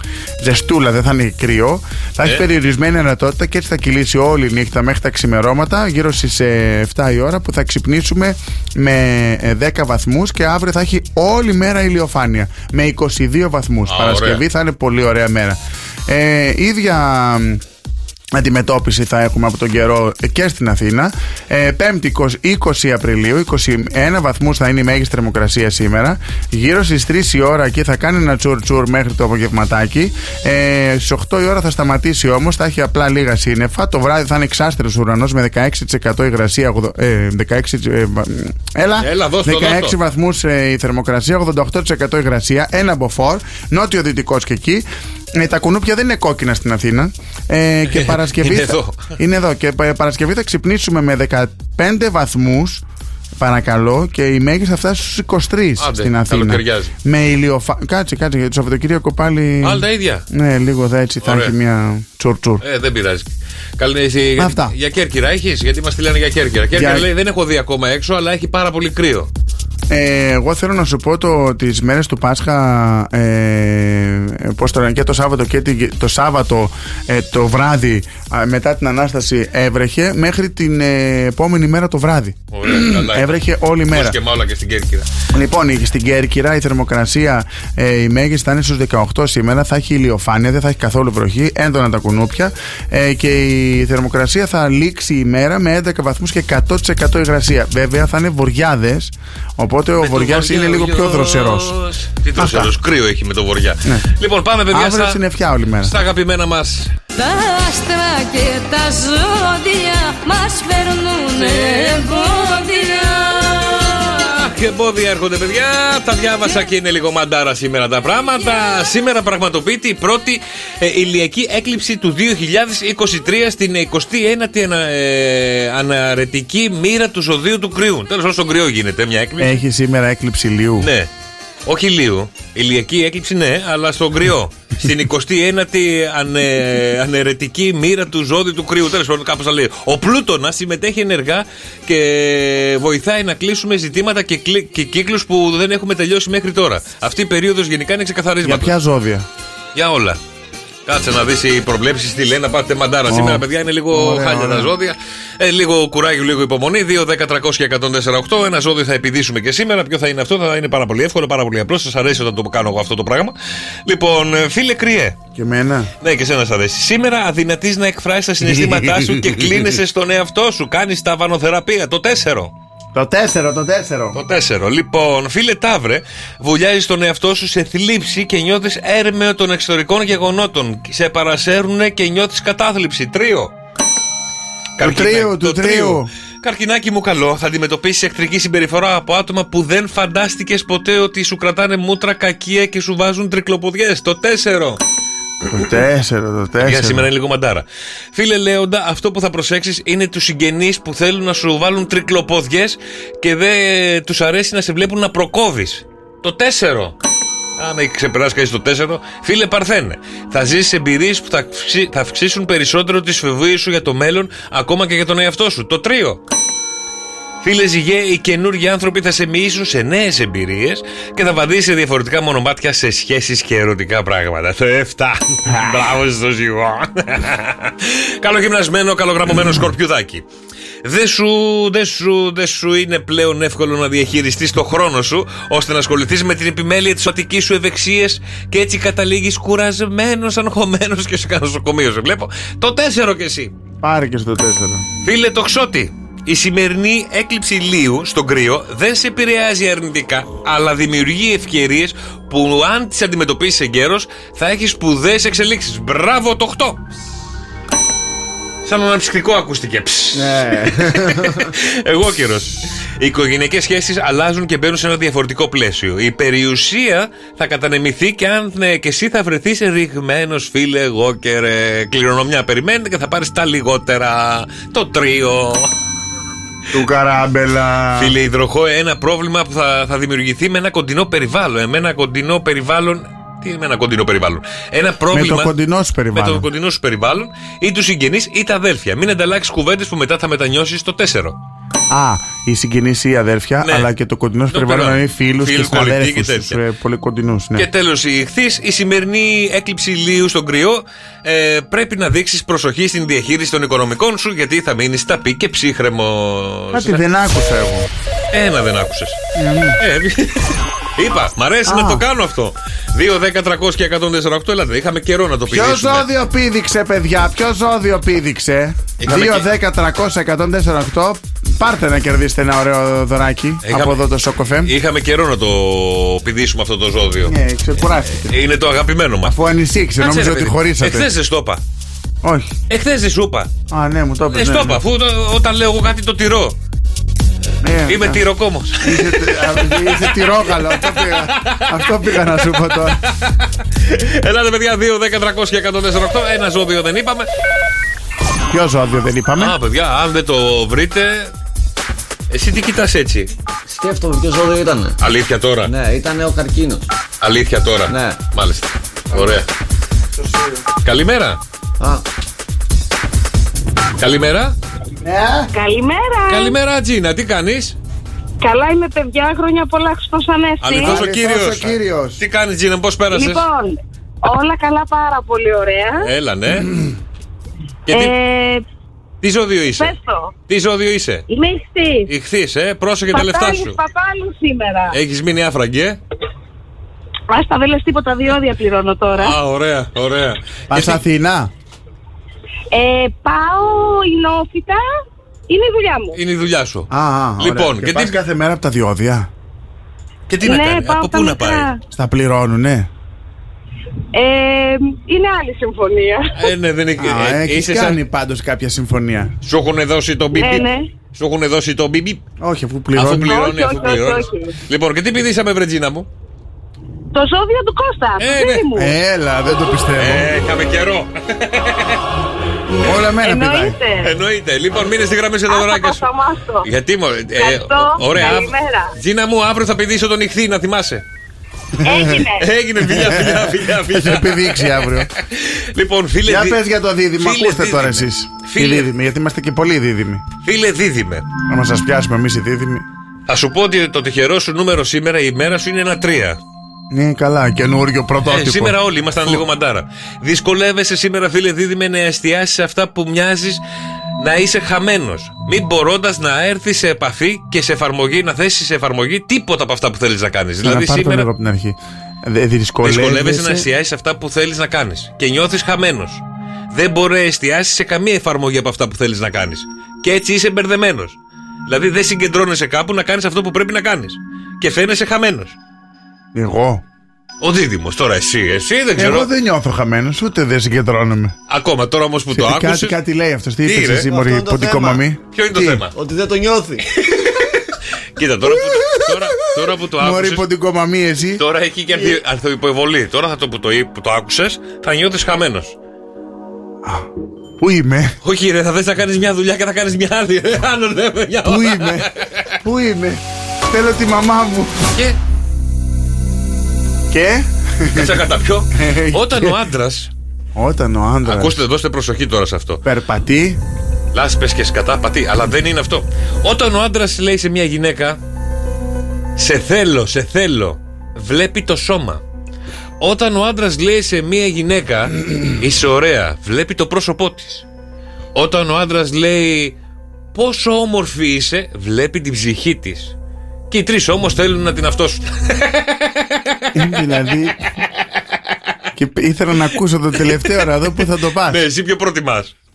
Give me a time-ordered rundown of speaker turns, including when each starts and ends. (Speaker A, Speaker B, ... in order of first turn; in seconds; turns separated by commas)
Speaker A: 0.4-17.6, Speaker B: 13.9-14.4, Speaker A: 18.3-52.8, Speaker B: 39.0-40.0, Speaker B: 47.9-49.1, Speaker A: 53.4-62.6, Speaker B: 55.8-56.9, Speaker B: 59.6-60.2, Speaker B: 61.2-61.5, Speaker B: 62.6-69.3, Speaker A: 64.4-64.8, Speaker A: 66.7-67.1, Speaker A: 69.9-84.2, Speaker B: 82.5-85.1, Speaker A: 85.3-101.7, Speaker B: 100.0-105.2, Speaker A: 102.4-102.7, Speaker A: 104.7-106.0, Speaker B: 105.8-106.9, Speaker C: 107.2-114.2, Speaker B: 114.2-129.6, Speaker A: 129.4-130.9, Speaker B: 130.8-131.1, Speaker B: 131.7-148.7, Speaker A: 148.4-149.3, Speaker B: 149.7-150.2, Speaker B: 150.8-163.3, Speaker A: 153.1-154.7, Speaker B: 163.8-165.2, Speaker A: 165.3-165.9, Speaker B: 166.0-172.5, Speaker A: 168.4-169.7, Speaker A: 172.9-174.2, Speaker B: 174.1-183.5, Speaker B: 184.8-194.8, Speaker A: 184.8-186.1, Speaker A: 195.5-197.1, Speaker B: 196.6-206.9, Speaker B: 207.6-216.2, Speaker B: 217.4-230.2, Speaker B: 230.8-243.5, Speaker A: 243.8-244.8, Speaker B: 245.0-256.8, Speaker B: 258.6-275.7, Speaker D: 260.1-261.5, Speaker A: 276.7-278.1, Speaker B: 277.9-285.5, Speaker A: 285.1-286.5, Speaker B: 286.1-291.4, Speaker A: 291.9-297.7, Speaker B: 293.6-293.9, Speaker B: 294.5-296.6, Speaker B: 297.6-307.0, Speaker A: 306.7-307.9, Speaker B: 308.3-309.2, Speaker A: 309.4-309.8, Speaker B: 309.8-316.1, Speaker A: 311.6-312.0, Speaker A: 315.5-324.7, Speaker B: 319.0-319.5, Speaker B: 323.6-324.0, Speaker B: 324.6-327.3, Speaker A: 327.2-328.4, Speaker B: 328.2-329.4, Speaker A: 329.2-331.1, Speaker B: 330.0-331.6, Speaker A: 332.2-332.5, Speaker B: 332.7-333.5, Speaker A: 333.7-334.8, Speaker B: 334.3-336.6, Speaker A: 337.6-338.2, Speaker B: 337.9-347.3, Speaker A: 338.8-343.0, Speaker A: 348.5-349.6, Speaker B: 349.4-351.3, Speaker B: 352.3-353.3, Speaker D: 353.7-354.9, Speaker B: 355.0-355.7, Speaker D: 355.6-356.8, Speaker B: 357.2-359.5, Speaker D: 357.9-358.2, Speaker A: 360.2-360.6, Speaker B: 360.8-361.4, Speaker B: 364.0-364.6, Speaker A: 365.0-365.5, Speaker E: 365.5-366.6, Speaker B: 366.3-367.8, Speaker E: 368.4-371.0, Speaker B: 370.6-373.4, Speaker A: 370.8-372.2, Speaker E: 373.1-376.1, Speaker B: 376.0-376.7, Speaker A: 376.6-376.9, Speaker B: 377.9-378.1, Speaker E: 377.9-378.6, Speaker B: 379.2-379.9, Speaker E: 379.8-380.3, Speaker B: 380.5-381.2, Speaker E: 381.3-382.1, Speaker B: 382.1-383.8, Speaker E: 383.1-385.0, Speaker B: 384.9-386.0, Speaker E: 387.3-389.4, Speaker B: 389.1-391.0, Speaker A: 390.7-391.5, Speaker E: 392.7-394.8, Speaker E: 395.5-396.2, Speaker B: 396.1-396.9, Speaker A: 396.9-399.3, Speaker B: 397.4-398.2, Speaker B: 400.3-401.7, Speaker E: 400.4-401.8, Speaker A: 401.9-402.9, Speaker E: 404.1-406.5, Speaker B: 406.3-408.0, Speaker A: 407.0-409.3, Speaker B: 409.4-412.2, Speaker E: 410.3-410.9, Speaker A: 412.4-413.3, Speaker B: 412.9-416.1, Speaker E: 413.1-414.6, Speaker E: 417.1-418.9, Speaker B: 418.2-418.7, Speaker A: 418.7-420.3, Speaker B: 419.9-422.0, Speaker A: 422.8-423.8, Speaker E: 423.2-424.1, Speaker B: 424.0-426.1, Speaker E: 425.5-426.7, Speaker B: 426.6-431.0, Speaker E: 427.4-428.9, Speaker E: 431.8-432.5, Speaker A: 431.9-432.1, Speaker B: 432.3-436.6, Speaker A: 432.8-435.1, Speaker A: 436.2-440.2, Speaker B: 437.2-438.9, Speaker B: 440.4-441.3, Speaker A: 441.5-442.8, Speaker B: 443.3-446.4, Speaker A: 446.9-448.8, Speaker B: 448.2-453.6, Speaker B: 454.2-461.3, Speaker A: 460.6-463.7, Speaker B: 462.8-475.6, Speaker A: 476.3-476.8, Speaker B: 477.4-479.3, Speaker A: 478.9-481.3, Speaker B: 481.5-482.9, Speaker A: 482.3-485.8, Speaker B: 483.6-484.1, Speaker D: 484.1-485.0, Speaker B: 485.3-485.9, Speaker D: 485.9-486.8, Speaker B: 486.9-487.6, Speaker B: 488.1-490.5, Speaker A: 488.7-489.2, Speaker A: 489.9-491.4, Speaker B: 491.4-495.8, Speaker A: 496.8-497.1, Speaker A: 497.6-498.1, Speaker B: 498.2-502.5, Speaker A: 501.4-502.1, Speaker A: 502.6-504.8, Speaker A: 507.1-508.2, Speaker B: 507.9-510.1, Speaker A: 508.7-509.6, Speaker A: 510.6-511.6, Speaker B: 511.2-512.8, Speaker A: 512.8-513.6, Speaker B: 514.1-518.2, Speaker B: 519.4-522.2, Speaker B: 523.0-527.6, Speaker B: 528.3-529.8, Speaker B: 530.3-533.1, Speaker B: 533.7-537.0, Speaker A: 536.7-537.6, Speaker A: 539.0-541.6, Speaker B: 540.4-542.5